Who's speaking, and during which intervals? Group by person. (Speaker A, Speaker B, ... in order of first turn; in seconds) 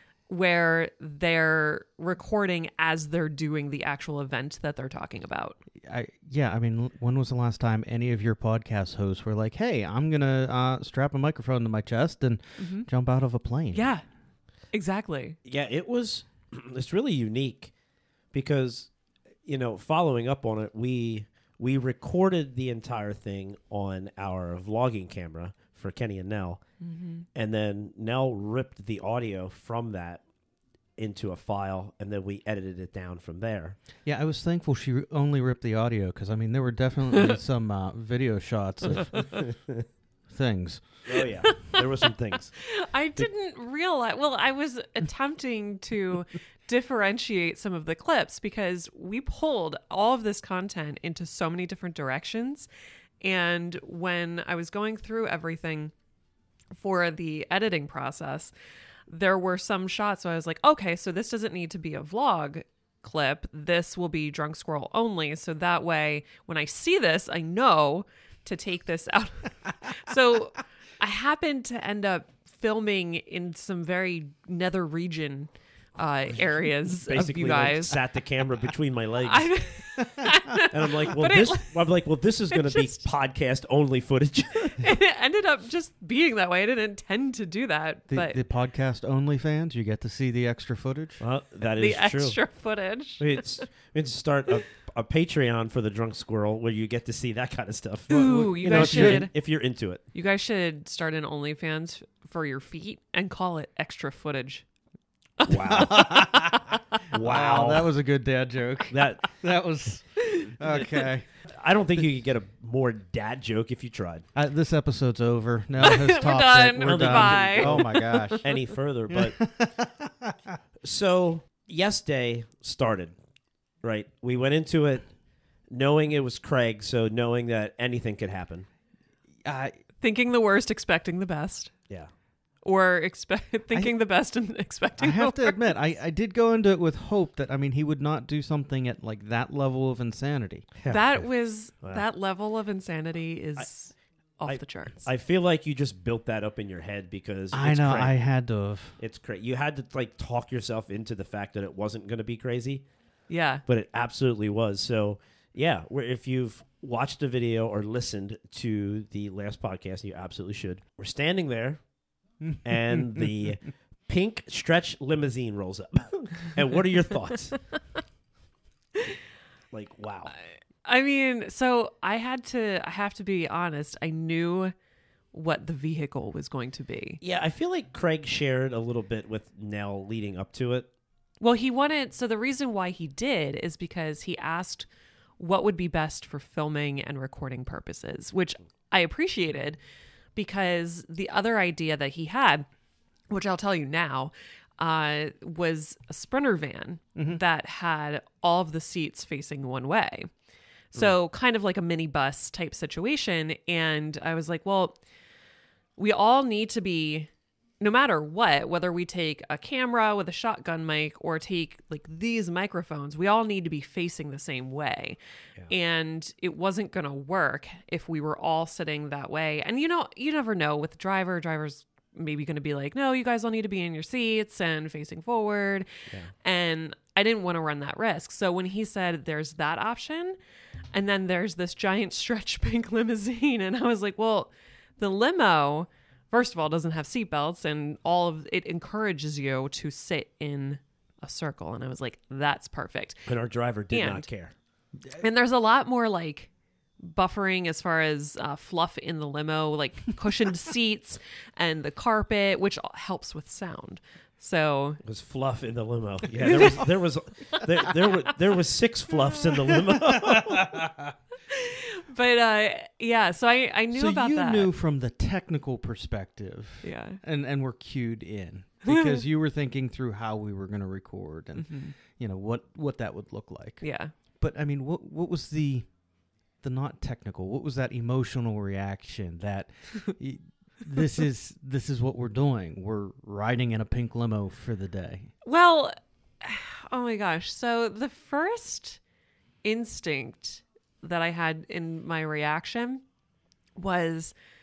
Speaker A: 0.3-5.6, 12.6-12.9, 13.7-14.0, 14.7-15.4, 26.8-27.2, 41.4-41.8, 42.5-52.7, 53.2-55.9, 56.8-58.5, 59.1-78.0, 79.2-81.9, 82.5-83.0, 84.7-88.4, 91.8-93.4, 98.1-99.3, 100.1-104.6, 105.4-105.8, 115.8-118.4, 130.0-131.7, 132.6-135.7, 140.9-145.1, 153.3-153.6, 170.8-174.7, 175.3-177.2, 181.4-184.9, 185.4-189.8, 190.3-192.7, 193.3-200.3, 200.9-205.0, 206.0-207.3, 207.8-215.2, 215.7-225.9, 226.4-230.4, 230.9-243.3, 243.9-244.3, 245.2-246.5, 247.0-255.0, 256.4-256.8, 261.4-264.7, 266.8-267.2, 268.9-269.2, 271.6-271.9, 273.8-274.1, 285.4-289.0, 289.6-293.0, 293.8-294.3
Speaker B: 5.8-13.9, 34.0-39.3, 40.3-40.8, 77.4-77.9, 88.1-91.2, 98.1-99.3, 105.7-111.3, 114.3-118.5, 119.1-120.6, 129.4-129.8, 135.0-141.2, 147.5-149.0, 260.0-260.9, 263.9-273.8, 274.4-275.9, 276.6-285.3
Speaker C: 15.4-17.7, 18.3-18.9, 19.4-26.6, 27.3-30.2, 31.0-33.8, 39.1-39.8, 41.0-42.6, 77.1-79.5, 80.6-84.9, 91.2-92.4, 93.2-100.0, 105.4-106.5, 107.1-107.9, 108.9-109.3, 110.6-114.3, 116.8-119.4, 120.8-123.1, 123.8-125.1, 125.7-128.7, 144.4-148.2, 149.0-152.8, 153.7-161.8, 162.6-167.6, 169.7-170.3, 177.2-180.9, 243.3-244.5, 255.0-260.9